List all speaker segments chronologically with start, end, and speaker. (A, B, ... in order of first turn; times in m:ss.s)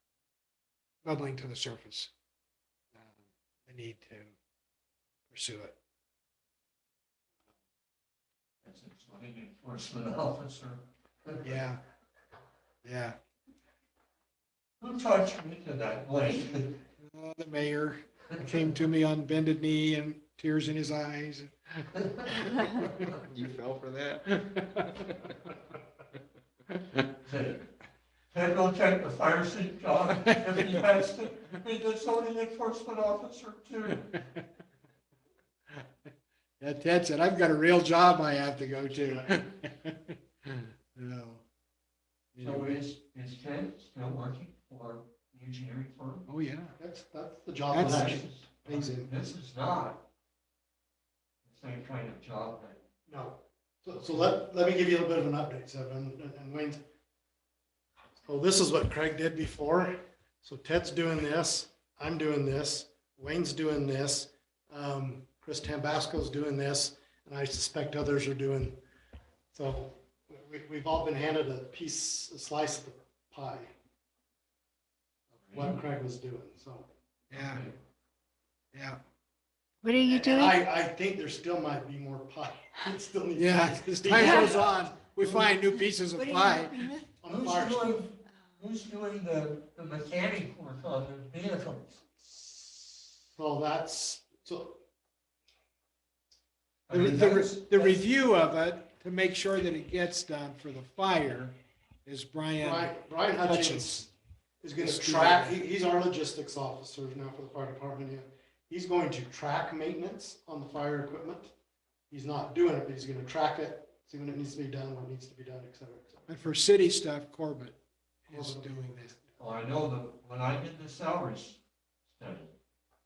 0:01.0-0:02.1 A
0:02.9-0:04.4 A
0:05.3-0:05.8 A
0:08.6-0:11.6 B
0:11.4-0:11.8 A
0:12.8-0:13.2 A
0:14.8-0:16.8 B
0:17.0-0:25.5 A
0:18.3-0:18.6 B
0:22.0-0:23.0 B
0:27.2-0:27.7 B
0:28.3-0:34.1 B
0:36.6-0:41.4 A
0:39.0-0:39.4 C
0:42.3-0:42.8 A
0:42.4-0:46.3 B
0:46.3-0:46.8 A
0:46.8-0:49.1 C
0:47.7-0:48.2 A
0:47.7-0:50.0 B
0:51.4-0:52.8 B
0:53.1-0:56.8 C
0:58.3-1:08.8 C
1:09.5-1:13.7 C
1:15.4-1:15.8 B
1:15.5-1:16.9 C
1:17.3-1:17.6 A
1:17.3-1:17.8 B
1:18.7-1:19.0 A
1:19.8-1:20.6 D
1:20.0-1:25.5 C
1:23.4-1:26.9 A
1:24.3-1:24.6 D
1:26.2-1:27.0 D
1:27.2-1:28.0 C
1:27.3-1:32.0 B
1:32.2-1:34.8 C
1:36.9-1:38.0 B
1:36.9-1:44.1 A
1:42.6-1:44.1 C
1:44.6-1:51.5 C
1:44.8-1:45.6 A
1:52.1-1:56.6 C
1:56.3-1:59.1 A
1:58.3-1:59.4 C
1:59.4-2:02.5 B